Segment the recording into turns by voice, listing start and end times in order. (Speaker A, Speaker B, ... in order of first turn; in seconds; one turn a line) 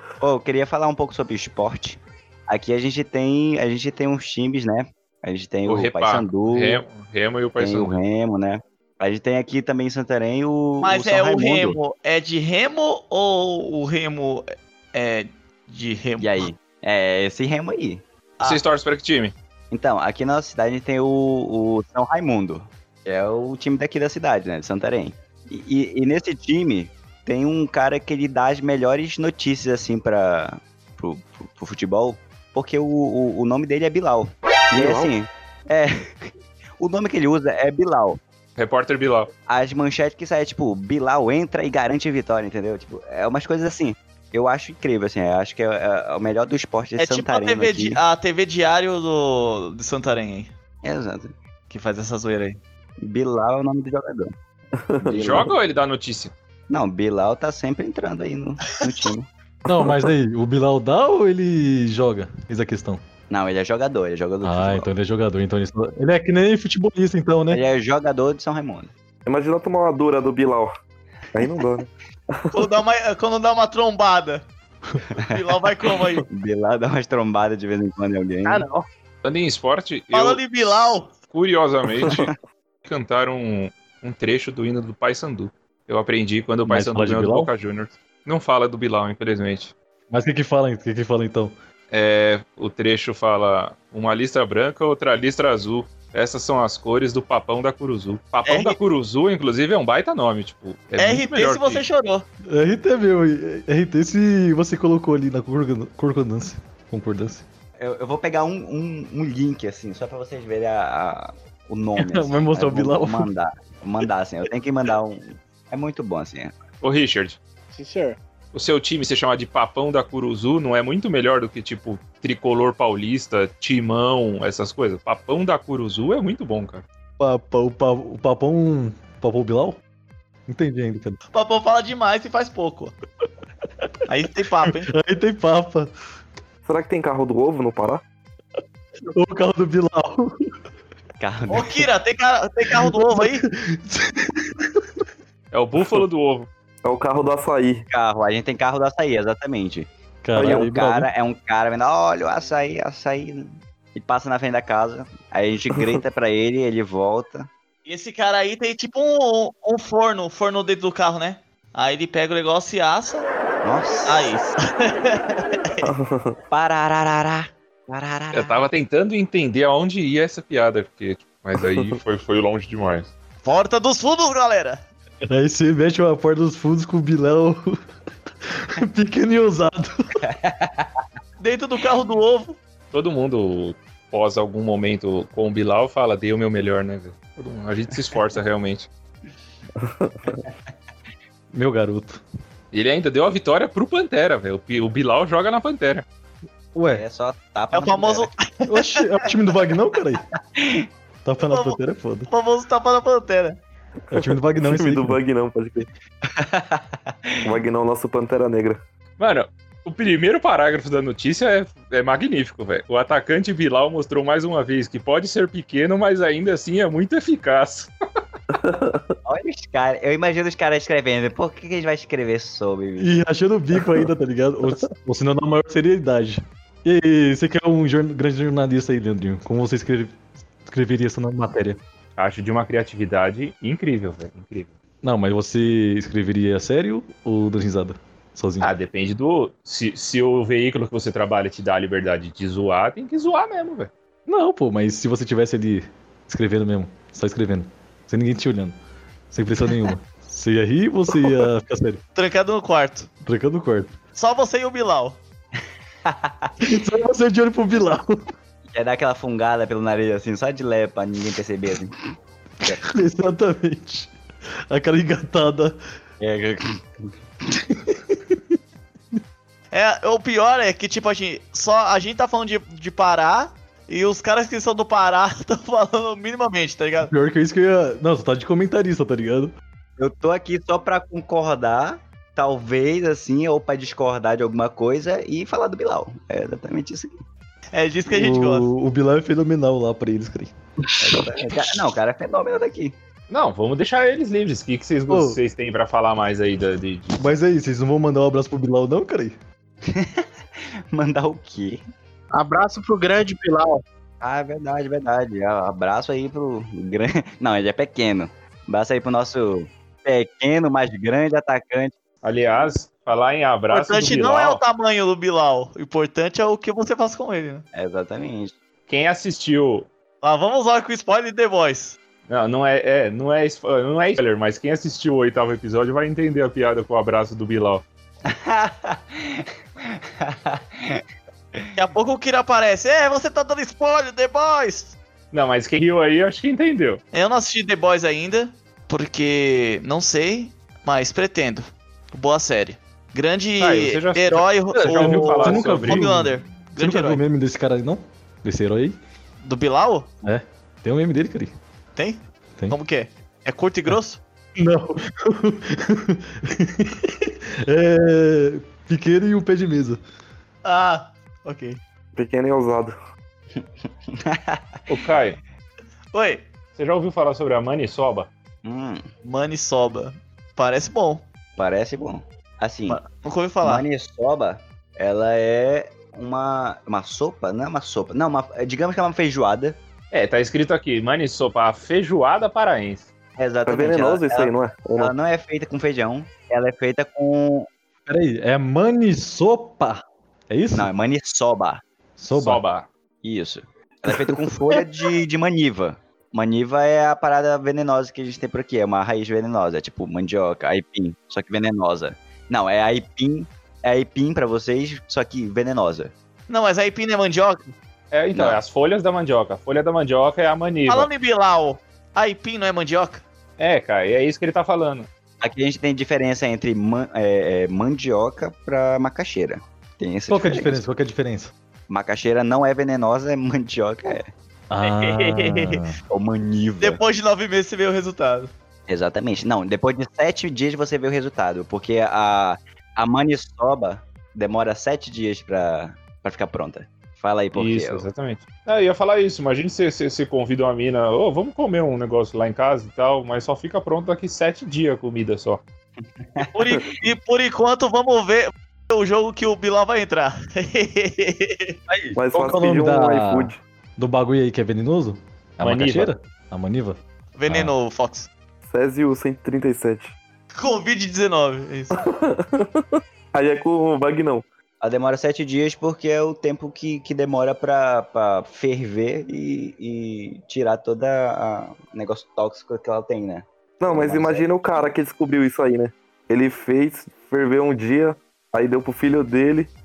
Speaker A: 0.2-6.8
Speaker B: 5.7-8.0
Speaker A: 7.6-11.8
Speaker C: 10.8-16.4
Speaker A: 16.2-18.0
Speaker B: 18.4-19.4
Speaker A: 19.7-38.2
Speaker D: 34.7-35.1
Speaker B: 38.6-39.3
Speaker A: 39.5-48.0
Speaker C: 47.0-50.5
Speaker A: 50.8-51.3
Speaker C: 51.7-52.6
Speaker A: 53.0-54.3
Speaker D: 54.8-55.5
Speaker A: 55.0-55.5
Speaker B: 55.1-56.3
Speaker A: 56.7-59.3
Speaker D: 59.7-60.1
Speaker E: 59.7-63.0
Speaker A: 63.3-64.9
Speaker E: 64.4-67.6
Speaker A: 67.5-68.9
Speaker D: 69.3-70.8
Speaker D: 71.3-72.7
Speaker C: 72.5-74.5
Speaker C: 75.2-76.2
Speaker A: 76.3-78.6
Speaker F: 78.5-78.8
Speaker B: 79.2-82.3
Speaker C: 80.1-81.1
Speaker D: 82.0-82.3
Speaker B: 82.8-89.7
Speaker E: 86.7-87.5
Speaker E: 90.1-91.5
Speaker B: 91.9-101.9
Speaker C: 98.5-98.8
Speaker C: 101.0-102.3
Speaker E: 102.5-107.5
Speaker A: 107.8-116.6
Speaker E: 112.0-113.3
Speaker B: 116.8-117.4
Speaker F: 117.7-118.2
Speaker B: 118.5-126.8
Speaker E: 127.2-129.8
Speaker E: 130.5-131.2
Speaker C: 131.3-132.9
Speaker C: 134.1-134.9
Speaker E: 134.7-135.9
Speaker D: 136.7-138.0
Speaker E: 139.1-140.4
Speaker A: 141.2-141.9
Speaker C: 141.5-143.4
Speaker E: 142.7-144.8
Speaker B: 145.5-146.5
Speaker D: 146.8-147.8
Speaker A: 147.9-149.9
Speaker E: 150.2-151.1
Speaker D: 150.3-150.7
Speaker A: 150.4-157.5
Speaker C: 157.9-163.3
Speaker A: 163.6-164.6
Speaker C: 164.1-165.9
Speaker D: 165.8-166.4
Speaker A: 166.5-168.7
Speaker B: 168.3-173.1
Speaker D: 171.6-171.9
Speaker C: 173.4-174.8
Speaker E: 175.3-177.8
Speaker E: 178.5-180.2
Speaker A: 180.2-181.0
Speaker C: 181.4-182.6
Speaker B: 182.9-188.9
Speaker D: 189.8-190.4
Speaker E: 191.5-192.2
Speaker B: 192.7-196.1
Speaker E: 196.8-197.0
Speaker A: 196.9-198.3
Speaker C: 197.7-199.1
Speaker E: 198.7-200.2
Speaker A: 200.6-200.9
Speaker E: 201.2-202.3
Speaker C: 201.4-203.6
Speaker E: 204.1-205.2
Speaker D: 204.1-205.9
Speaker A: 206.3-207.5
Speaker D: 207.4-208.8
Speaker B: 209.2-217.9
Speaker D: 218.5-219.1
Speaker A: 219.2-223.2
Speaker E: 223.0-231.8
Speaker B: 232.2-234.7
Speaker E: 235.0-238.7
Speaker B: 238.6-243.9
Speaker E: 244.3-248.8
Speaker E: 249.3-252.0
Speaker C: 252.2-253.1
Speaker E: 253.2-253.9
Speaker C: 254.2-255.2
Speaker A: 256.1-256.5
Speaker E: 256.6-258.2
Speaker A: 258.7-262.0
Speaker E: 262.8-264.1
Speaker E: 264.7-265.8
Speaker A: 266.2-267.1
Speaker E: 267.9-268.4
Speaker C: 269.7-277.1
Speaker E: 277.1-279.5
Speaker A: 280.0-287.2
Speaker C: 287.7-288.7
Speaker E: 288.1-290.5
Speaker A: 291.0-293.0
Speaker B: 293.3-297.2
Speaker E: 295.1-295.4
Speaker E: 297.2-299.4
Speaker A: 299.8-301.8
Speaker F: 302.3-303.8
Speaker A: 304.2-311.9
Speaker B: 312.2-314.6
Speaker C: 313.7-317.6
Speaker A: 317.7-318.6
Speaker B: 318.9-319.9
Speaker C: 320.2-322.0
Speaker B: 322.3-327.8
Speaker A: 328.2-331.0
Speaker C: 331.8-334.9
Speaker B: 335.3-337.0
Speaker C: 337.1-347.2
Speaker B: 343.6-346.1
Speaker E: 344.7-349.0
Speaker C: 349.4-350.1
Speaker E: 350.2-351.5
Speaker C: 352.0-354.2
Speaker E: 354.6-360.0
Speaker C: 360.6-361.8
Speaker D: 362.2-362.9
Speaker A: 363.6-364.7
Speaker B: 364.9-365.4
Speaker C: 366.1-366.5
Speaker B: 366.8-368.3
Speaker A: 368.6-369.1
Speaker C: 369.2-371.2
Speaker A: 371.6-373.0
Speaker C: 372.9-373.8
Speaker A: 373.6-379.8
Speaker B: 380.1-383.1
Speaker A: 383.4-387.7
Speaker D: 383.7-385.1
Speaker E: 388.1-390.9
Speaker A: 390.7-391.8
Speaker E: 392.2-392.6
Speaker B: 392.3-392.9
Speaker A: 393.2-406.1
Speaker C: 406.5-407.7
Speaker B: 408.1-411.1
Speaker A: 408.3-408.6
Speaker C: 410.9-413.2
Speaker B: 413.6-415.1
Speaker A: 415.4-420.8
Speaker E: 420.3-421.5
Speaker A: 421.9-424.3
Speaker E: 424.7-426.0
Speaker C: 424.8-425.8
Speaker A: 426.1-427.0
Speaker C: 426.8-428.5
Speaker A: 428.9-438.1
Speaker B: 437.5-445.6
Speaker A: 446.2-446.5
Speaker C: 446.5-451.8
Speaker E: 451.9-457.7
Speaker D: 452.1-453.6
Speaker B: 455.6-456.1
Speaker C: 457.4-458.3
Speaker D: 458.6-460.2
Speaker C: 460.5-462.1
Speaker D: 461.9-464.4
Speaker A: 464.8-474.9
Speaker D: 473.8-479.7